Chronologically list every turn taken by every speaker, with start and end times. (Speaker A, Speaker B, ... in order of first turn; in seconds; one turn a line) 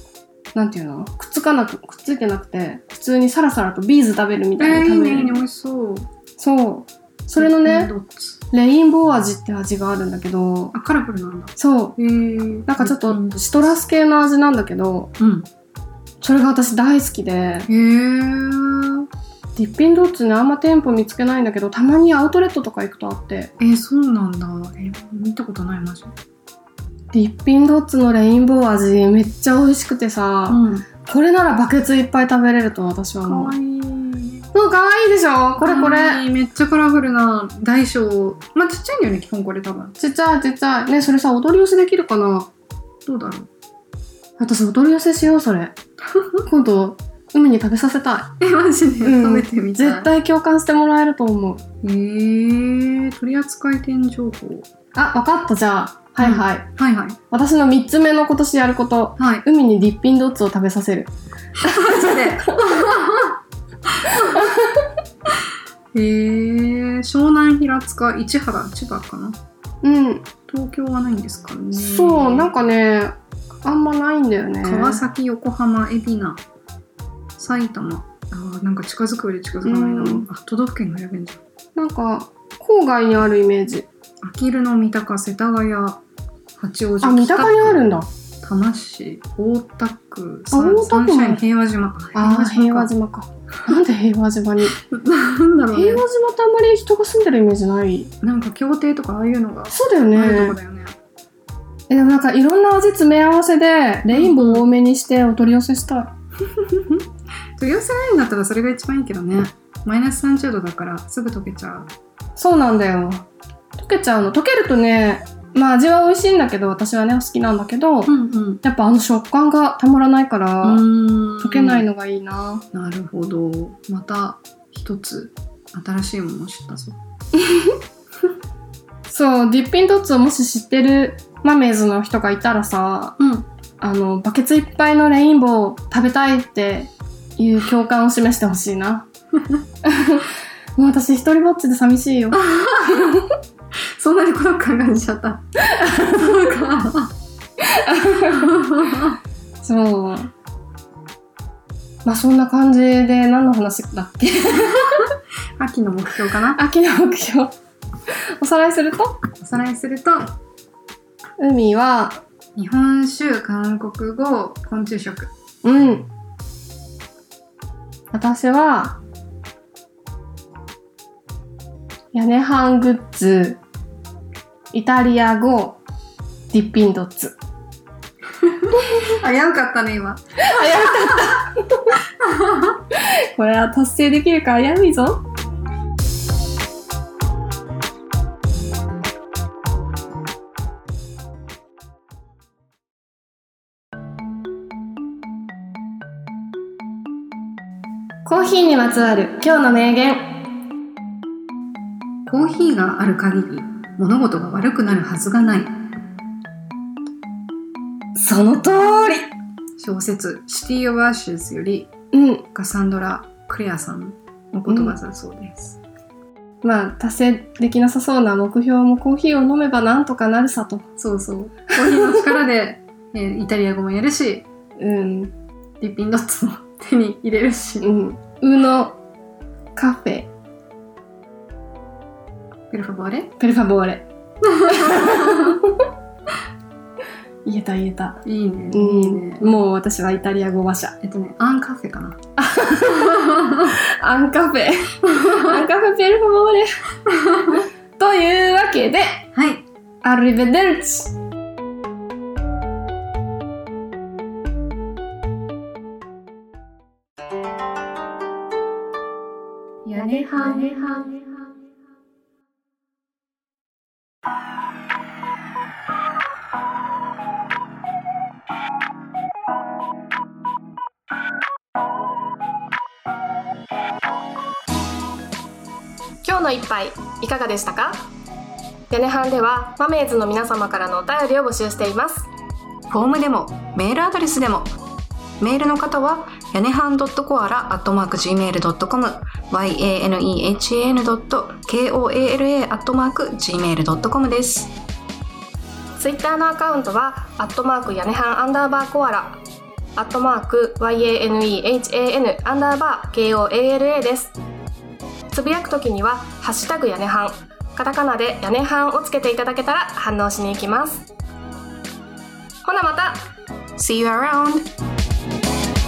Speaker A: 0.5-5.4
Speaker B: 4.6-6.1
Speaker A: 6.4-7.9
Speaker B: 7.4-8.4
Speaker A: 8.5-10.8
Speaker B: 10.7-13.8
Speaker A: 11.6-12.0
Speaker A: 12.7-15.1
Speaker B: 15.2-15.5
Speaker A: 16.2-17.7
Speaker B: 17.7-19.1
Speaker A: 19.6-23.5
Speaker B: 23.6-26.1
Speaker A: 27.1-33.5
Speaker B: 30.5-30.9
Speaker B: 33.2-34.5
Speaker A: 34.5-36.2
Speaker B: 35.6-40.0
Speaker A: 40.0-42.5
Speaker B: 43.1-43.5
Speaker A: 44.4-45.7
Speaker B: 46.1-46.4
Speaker A: 46.5-48.4
Speaker B: 48.4-50.1
Speaker A: 49.0-51.6
Speaker B: 51.8-54.7
Speaker A: 55.0-56.7
Speaker B: 56.2-57.2
Speaker A: 57.3-61.1
Speaker B: 59.2-59.5
Speaker B: 61.6-63.4
Speaker A: 61.6-62.8
Speaker B: 64.0-64.4
Speaker A: 64.2-64.8
Speaker B: 65.9-69.4
Speaker A: 69.8-70.3
Speaker B: 70.5-72.5
Speaker A: 71.7-75.0
Speaker B: 74.6-76.4
Speaker B: 77.4-81.4
Speaker A: 79.6-80.2
Speaker A: 81.8-83.9
Speaker B: 84.2-86.0
Speaker B: 86.6-87.9
Speaker A: 87.0-88.1
Speaker B: 88.4-92.9
Speaker A: 90.5-91.4
Speaker A: 92.1-94.8
Speaker B: 94.8-96.0
Speaker A: 95.7-98.1
Speaker B: 98.2-101.0
Speaker A: 99.7-100.6
Speaker A: 101.9-106.1
Speaker B: 104.1-104.7
Speaker B: 106.4-107.0
Speaker B: 107.6-111.9
Speaker A: 112.4-113.2
Speaker A: 113.8-120.9
Speaker B: 118.1-118.6
Speaker B: 120.6-121.9
Speaker A: 121.4-122.7
Speaker B: 122.7-127.0
Speaker A: 127.3-127.8
Speaker A: 129.1-133.2
Speaker B: 133.2-133.5
Speaker A: 133.8-139.1
Speaker A: 139.8-142.4
Speaker B: 142.3-143.2
Speaker A: 142.9-143.2
Speaker B: 143.9-147.1
Speaker A: 145.7-146.4
Speaker A: 147.6-148.6
Speaker B: 148.2-149.2
Speaker A: 149.6-150.3
Speaker A: 152.1-155.1
Speaker B: 155.6-156.6
Speaker A: 156.6-157.5
Speaker A: 158.1-159.2
Speaker B: 159.4-160.3
Speaker A: 161.4-162.2
Speaker B: 162.6-165.3
Speaker A: 165.6-166.1
Speaker A: 168.1-169.0
Speaker A: 172.1-173.6
Speaker A: 174.7-175.8
Speaker A: 176.5-177.4
Speaker B: 178.4-181.3
Speaker A: 180.4-182.0
Speaker B: 182.2-182.8
Speaker A: 182.9-185.2
Speaker A: 198.2-200.3
Speaker B: 202.3-205.8
Speaker A: 208.2-209.3
Speaker B: 209.8-211.9
Speaker A: 212.1-212.5
Speaker B: 212.5-215.8
Speaker A: 214.7-215.0
Speaker A: 216.6-220.9
Speaker B: 221.0-224.4
Speaker A: 221.8-222.3
Speaker A: 224.8-225.3
Speaker B: 225.8-227.9
Speaker A: 227.8-229.0
Speaker A: 229.8-230.3
Speaker B: 232.7-233.3
Speaker A: 233.4-234.1
Speaker B: 234.4-235.6
Speaker A: 234.7-235.9
Speaker A: 237.4-241.0
Speaker B: 238.2-239.6
Speaker B: 241.0-242.2
Speaker A: 242.4-246.7
Speaker B: 243.1-243.7
Speaker B: 245.1-245.6
Speaker B: 247.1-247.6
Speaker A: 248.0-249.2
Speaker B: 249.3-249.7
Speaker A: 250.0-251.1
Speaker C: 259.9-261.1
Speaker A: 276.2-278.1
Speaker A: 278.9-282.3
Speaker C: 282.9-284.7
Speaker C: 285.4-294.7
Speaker A: 296.0-299.4
Speaker A: 300.0-304.4
Speaker A: 305.3-311.1
Speaker A: 312.6-313.2
Speaker C: 313.8-314.7